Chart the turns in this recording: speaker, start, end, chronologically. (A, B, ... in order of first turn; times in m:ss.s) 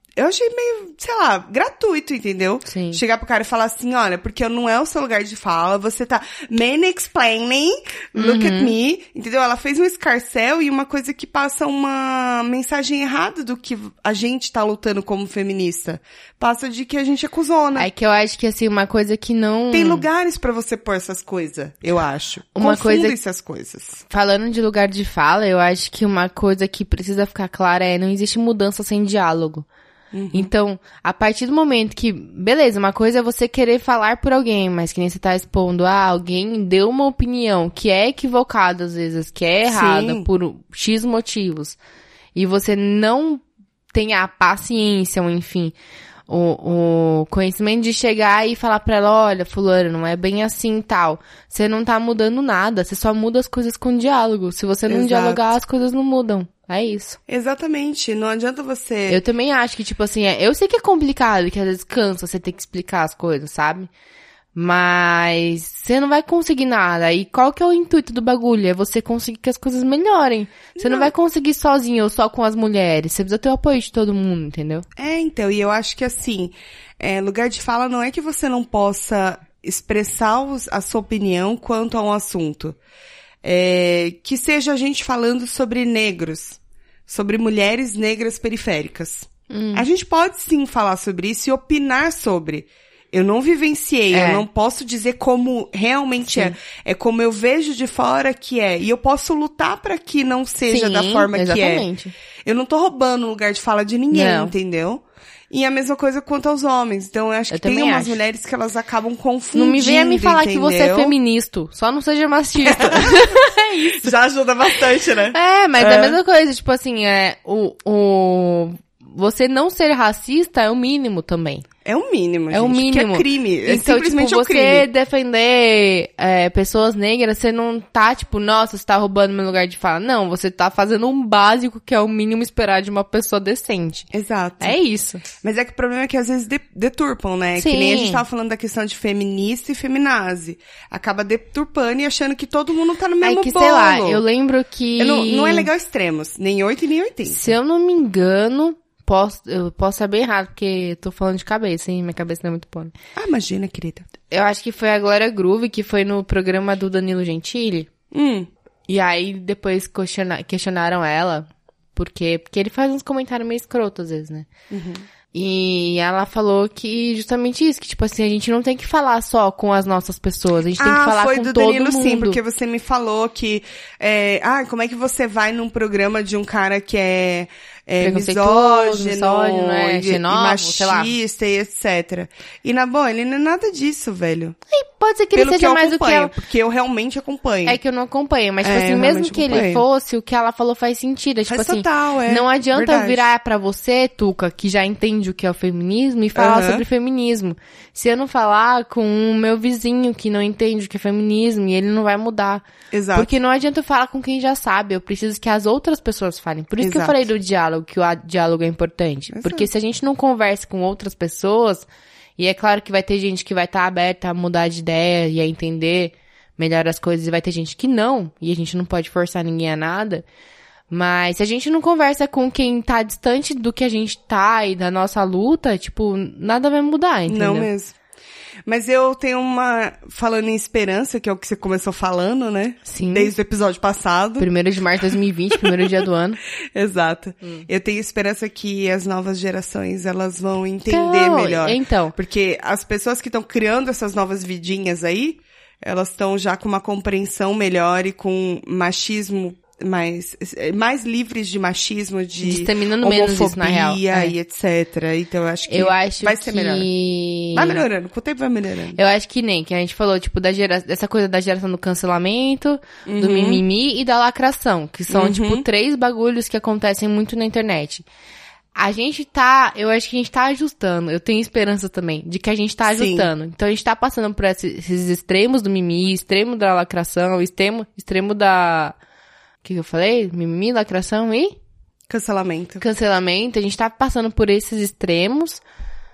0:00.2-0:17.9 A
0:02.7-0:03.0 B
0:08.2-0:08.7 B
0:17.8-0:20.1 B
0:19.7-0:24.0 A
0:22.6-0:23.2 B
0:24.1-0:29.6 B
0:30.1-0:30.5 A
0:30.3-0:41.8 B
0:39.7-0:40.3 A
0:42.3-0:45.7 B
0:46.3-0:57.2 B
0:54.9-0:55.5 A
0:57.3-0:59.2 A
0:59.1-1:03.9 B
1:04.5-1:14.8 B
1:10.8-1:11.1 A
1:15.0-1:22.8 A
1:23.4-1:41.9 A
1:29.5-1:29.8 B
1:34.1-1:34.4 B
1:36.2-1:36.6 B
1:40.7-1:42.1 B
1:42.4-1:51.1 A
1:44.1-1:44.5 B
1:47.5-1:48.2 B
1:49.5-1:54.1 B
1:52.6-1:53.3 A
1:53.9-1:56.2 A
1:55.3-2:01.6 B
2:01.8-2:04.9 A
2:02.5-2:14.1 B
2:14.1-2:14.8 A
2:14.6-2:15.2 B
2:15.4-2:24.2 A
2:17.6-2:18.2 B
2:23.2-2:25.7 B
2:25.0-2:27.5 A
2:27.3-2:32.9 B
2:33.2-2:34.1 A
2:34.3-2:37.9 B
2:38.1-2:38.5 A
2:38.9-2:44.5 B
2:44.7-2:45.0 A
2:45.3-2:52.4 B
2:50.8-3:04.6 A
2:58.0-3:01.1 B
3:04.7-3:06.3 B
3:05.3-3:07.8 A
3:07.6-3:31.9 B
3:08.6-3:09.8 A
3:11.5-3:13.3 A
3:16.3-3:16.8 A
3:22.9-3:23.3 A
3:26.8-3:27.2 A
3:29.3-3:29.7 A
3:32.4-3:40.2 B
3:40.9-3:47.7 B
3:47.3-3:48.0 A
3:48.7-3:54.5 A
3:52.9-3:53.3 B
3:54.4-3:56.4 B
3:55.6-3:55.9 A
3:56.7-4:16.9 A
4:00.9-4:02.2 B
4:12.4-4:14.3 B
4:15.7-4:17.8 B
4:17.5-4:19.0 A
4:19.0-4:28.0 B
4:23.0-4:23.6 A
4:25.1-4:25.6 A
4:28.7-4:39.0 B
4:32.9-4:33.3 A
4:39.6-4:41.5 B
4:42.1-4:42.8 A
4:42.8-4:45.6 B